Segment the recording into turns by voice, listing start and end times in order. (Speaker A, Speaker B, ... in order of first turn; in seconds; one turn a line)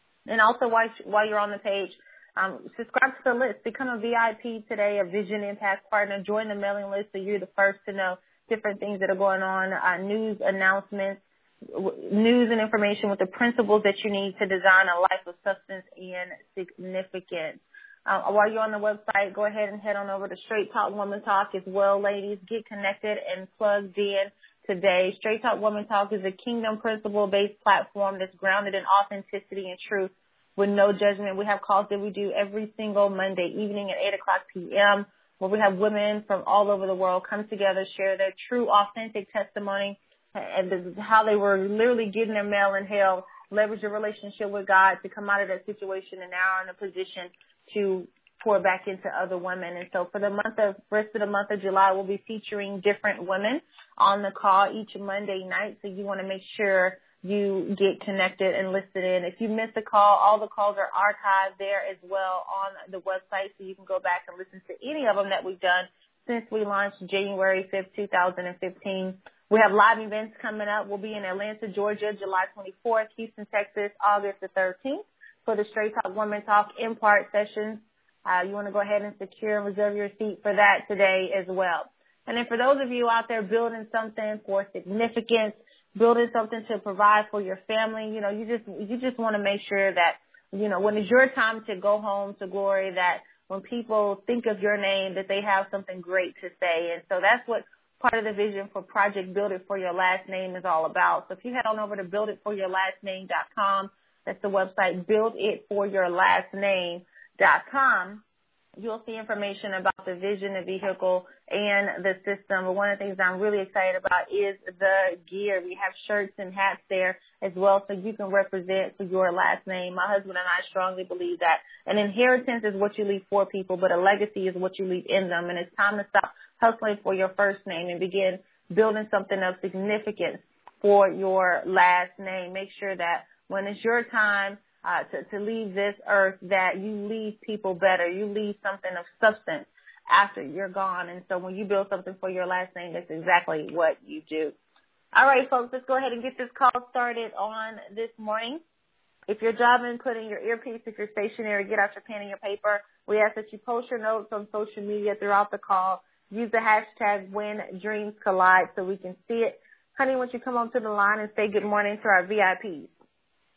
Speaker A: 0.3-108.2
Speaker A: 108.8-144.6
Speaker A: 145.1-148.6
Speaker A: 149.3-162.9